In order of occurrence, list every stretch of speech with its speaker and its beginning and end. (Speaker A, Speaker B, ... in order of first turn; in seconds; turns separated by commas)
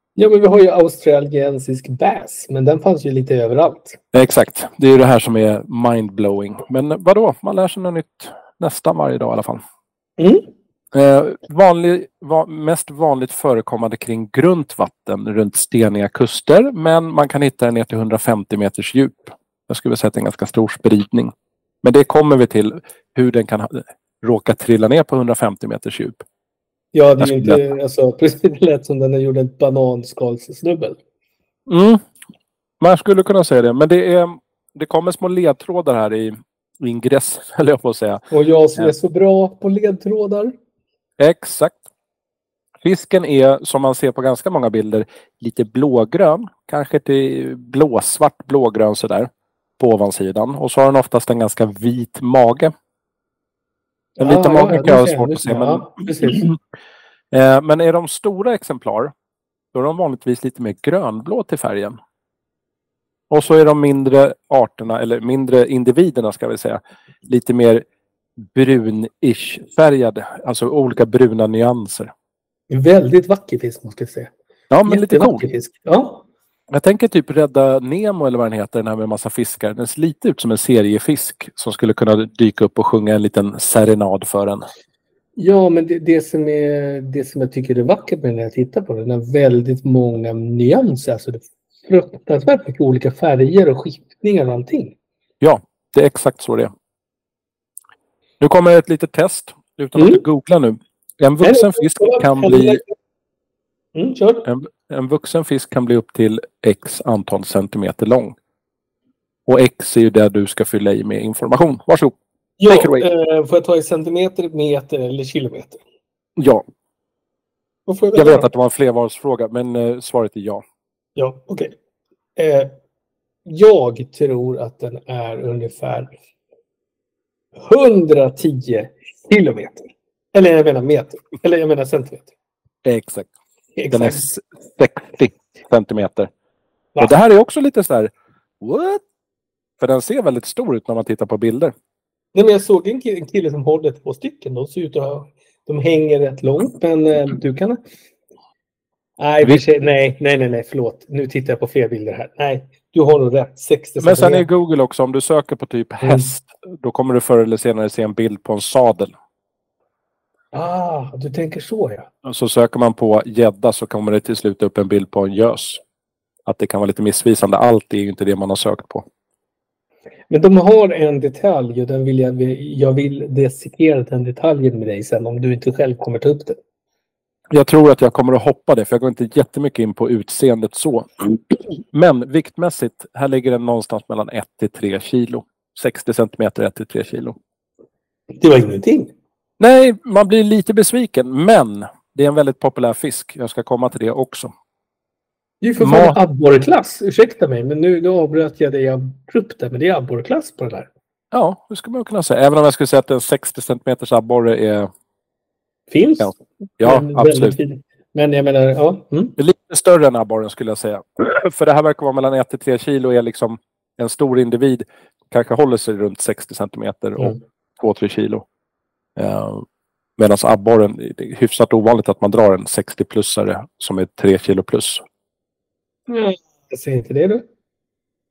Speaker A: 0.2-4.0, Speaker B: 4.1-9.6, Speaker A: 10.2-10.5, Speaker B: 10.9-21.3, Speaker B: 21.8-26.2, Speaker A: 26.9-31.0, Speaker B: 27.2-27.6, Speaker B: 31.7-32.0, Speaker B: 32.8-38.2, Speaker A: 38.3-40.5, Speaker B: 41.2-41.8, Speaker B: 42.8-52.7, Speaker A: 54.2-56.5, Speaker B: 54.2-56.5, Speaker B: 57.3-59.1, Speaker B: 59.7-62.0, Speaker B: 63.3-67.8, Speaker B: 68.5-72.1, Speaker A: 72.7-74.3, Speaker B: 74.7-75.4, Speaker A: 74.8-76.2, Speaker B: 76.7-84.6, Speaker A: 85.4-94.9, Speaker B: 95.4-96.7, Speaker B: 98.4-102.8, Speaker A: 100.0-100.2, Speaker A: 101.4-102.9, Speaker A: 103.9-104.5, Speaker B: 104.4-108.3, Speaker B: 109.5-112.1, Speaker A: 112.6-115.8, Speaker B: 112.7-113.1, Speaker B: 116.4-116.6, Speaker A: 117.9-118.5, Speaker B: 118.1-120.6, Speaker A: 121.2-121.7, Speaker A: 122.3-122.7, Speaker A: 123.5-126.1, Speaker A: 127.6-132.3, Speaker B: 132.8-133.3, Speaker A: 133.8-134.2, Speaker B: 133.9-136.3, Speaker B: 137.0-139.0, Speaker B: 139.8-141.7, Speaker A: 142.3-147.8, Speaker A: 149.2-154.4, Speaker B: 154.0-159.1, Speaker A: 156.0-156.3, Speaker A: 160.5-162.1, Speaker B: 162.2-165.8, Speaker B: 166.4-169.0, Speaker A: 170.3-176.6, Speaker B: 177.5-187.3, Speaker A: 188.3-189.1, Speaker B: 189.6-194.5, Speaker A: 195.6-200.9, Speaker B: 195.8-196.2, Speaker B: 201.3-204.9, Speaker A: 205.9-209.3, Speaker B: 206.2-207.6, Speaker B: 209.4-218.4, Speaker B: 219.2-219.6, Speaker B: 220.2-225.0, Speaker A: 226.1-227.4